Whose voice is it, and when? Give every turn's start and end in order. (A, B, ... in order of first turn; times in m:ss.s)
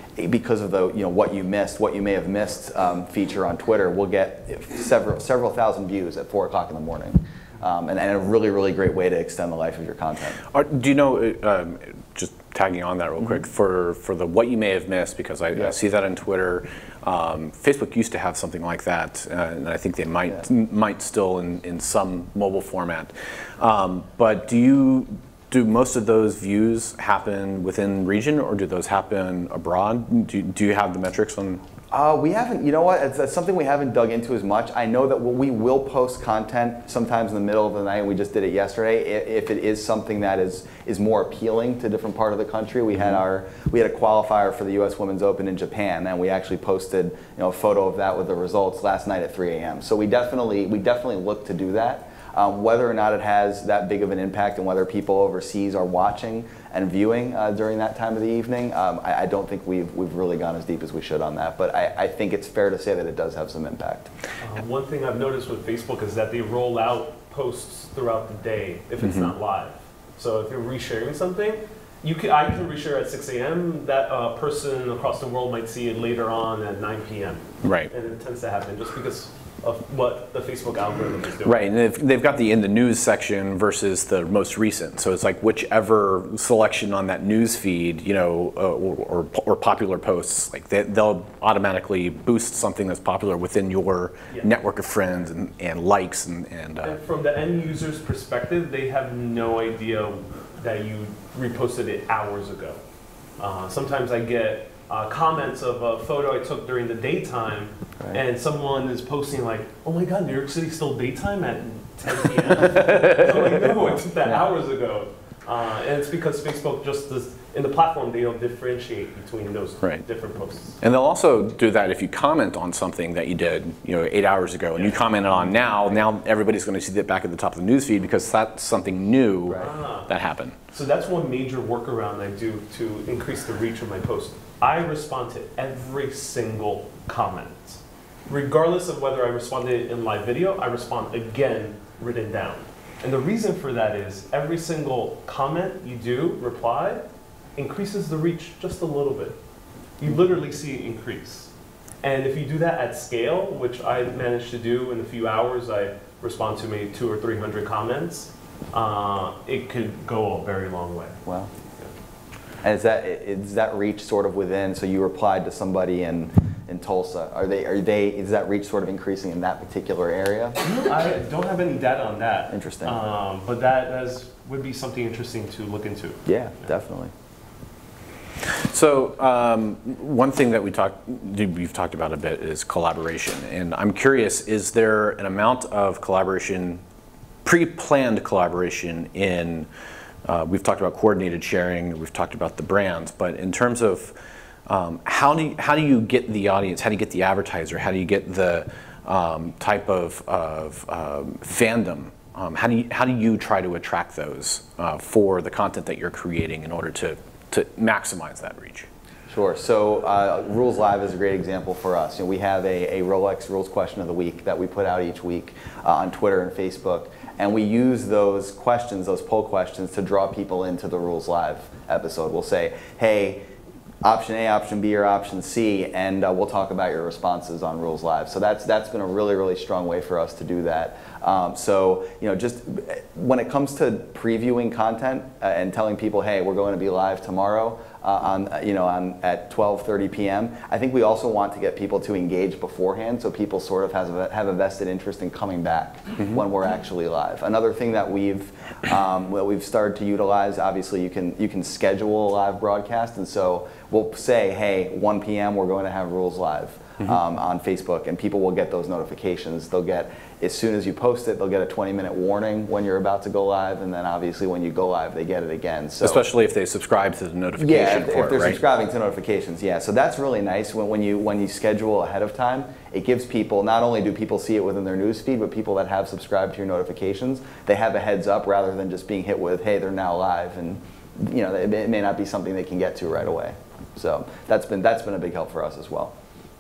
0:00.2-0:10.4 A
0:10.5-0:31.6 B
0:31.9-1:04.1 A
1:04.4-1:21.6 C
1:09.0-1:09.3 B
1:17.6-1:17.9 B
1:21.4-1:37.0 B
1:36.8-1:42.8 C
1:43.4-2:00.8 C
1:52.8-1:53.2 B
2:00.8-2:10.6 B
2:04.8-2:06.0 C
2:09.6-2:10.1 C
2:10.7-2:27.0 C
2:27.6-2:29.4 C
2:30.0-2:31.5 C
2:32.0-2:41.2 C
2:41.2-2:41.5 A
2:42.6-2:50.6 A
2:50.6-2:56.2 C
2:52.5-2:53.0 A
2:56.3-2:57.1 A
2:58.5-3:06.8 B
3:07.4-3:09.7 B
3:10.3-3:14.2 B
3:14.7-3:28.9 B
3:29.3-3:43.4 A
3:44.0-4:26.2 A
4:26.0-4:28.6 B
4:27.6-4:46.1 A